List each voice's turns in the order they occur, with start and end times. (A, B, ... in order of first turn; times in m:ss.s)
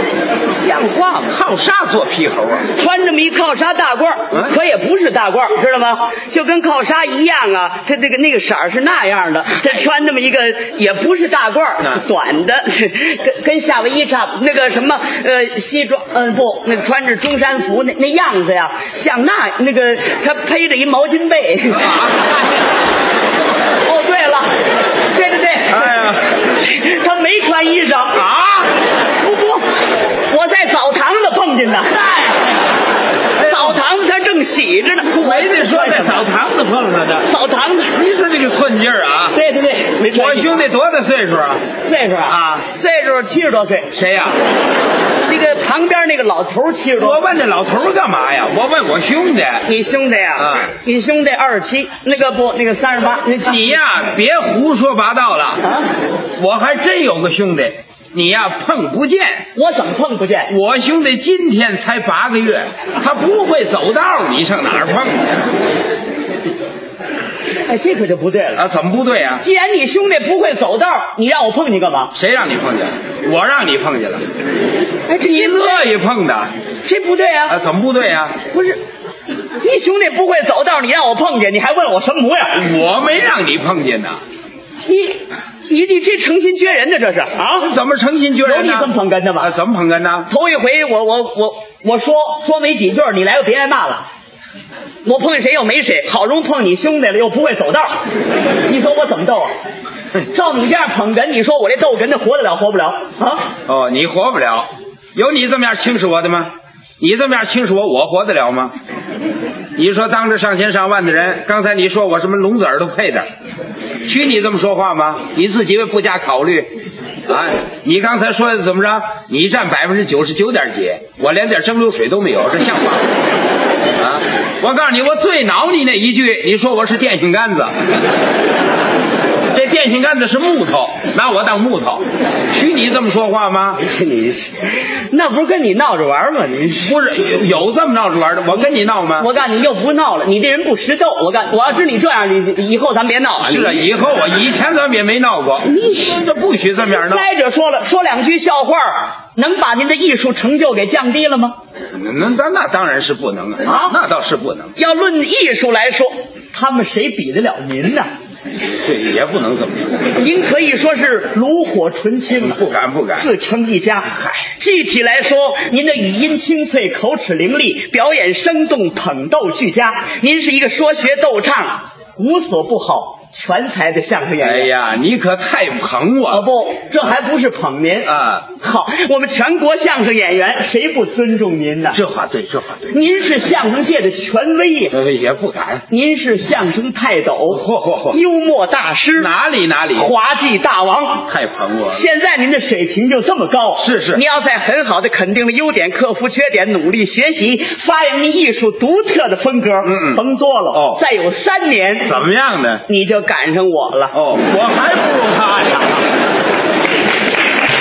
0:00.5-0:01.3 A
0:01.3-0:02.7 B
0:02.7-0:21.9 A
0:04.3-0:04.6 B
0:21.7-0:22.3 B
0:23.8-0:28.2 A
0:25.7-0:26.3 B
0:28.1-0:28.8 B
0:29.2-0:29.6 A
0:30.3-0:32.2 A
0:32.1-0:32.4 B
0:33.4-0:33.8 B
0:33.4-0:36.2 A
0:35.0-0:37.3 B
0:37.2-0:37.9 A
0:37.9-0:39.4 B
0:39.3-0:40.7 A
0:40.1-0:41.6 B
0:41.8-0:43.9 A
0:42.2-0:42.7 B
0:43.9-0:44.4 B
0:45.2-0:47.2 A
0:47.0-0:49.7 B
0:49.6-0:53.6 A
0:50.4-0:50.7 B
0:53.2-0:55.6 B
0:55.6-0:55.9 A
0:56.4-0:59.4 B
0:59.5-1:00.5 A
1:00.5-1:05.5 B
1:07.5-1:08.6 A
1:08.5-1:09.4 B
1:09.4-1:12.1 A
1:12.1-1:14.2 B
1:15.1-1:15.9 A
1:15.2-1:16.5 B
1:16.8-1:17.6 A
1:17.5-1:18.4 B
1:18.5-1:18.8 A
1:19.6-1:22.6 A
1:22.5-1:24.2 B
1:24.8-1:27.7 A
1:27.6-1:30.3 B
1:28.4-1:29.5 A
1:30.3-1:34.1 A
1:35.0-1:38.0 A
1:38.7-1:39.5 A
1:40.3-1:43.5 A
1:43.6-1:48.7 B
1:49.8-1:53.3 B
1:54.0-1:56.7 B
1:57.3-2:03.1 B
2:04.0-2:07.8 B
2:09.5-2:13.8 B
2:13.8-2:16.9 A
2:16.8-2:19.3 B
2:19.2-2:23.9 A
2:23.4-2:27.3 B
2:25.7-2:26.2 A
2:26.9-2:31.6 A
2:31.9-2:34.7 B
2:33.6-2:34.0 A
2:34.8-2:38.1 A
2:38.8-2:40.2 B
2:40.2-2:42.6 A
2:42.3-2:43.3 B
2:43.1-2:54.7 A
2:44.1-2:44.5 B
2:54.4-2:56.5 B
2:56.3-3:02.0 A
2:58.0-2:58.5 B
3:01.9-3:02.9 B
3:02.9-3:04.9 A
3:04.9-3:05.8 B
3:05.9-3:09.3 A
3:07.5-3:08.2 B
3:09.2-3:10.1 B
3:10.0-3:11.2 A
3:11.2-3:12.0 B
3:11.9-3:22.1 A
3:13.8-3:14.2 B
3:19.8-3:21.0 B
3:22.0-3:22.8 B
3:22.9-3:24.2 A
3:24.1-3:26.1 B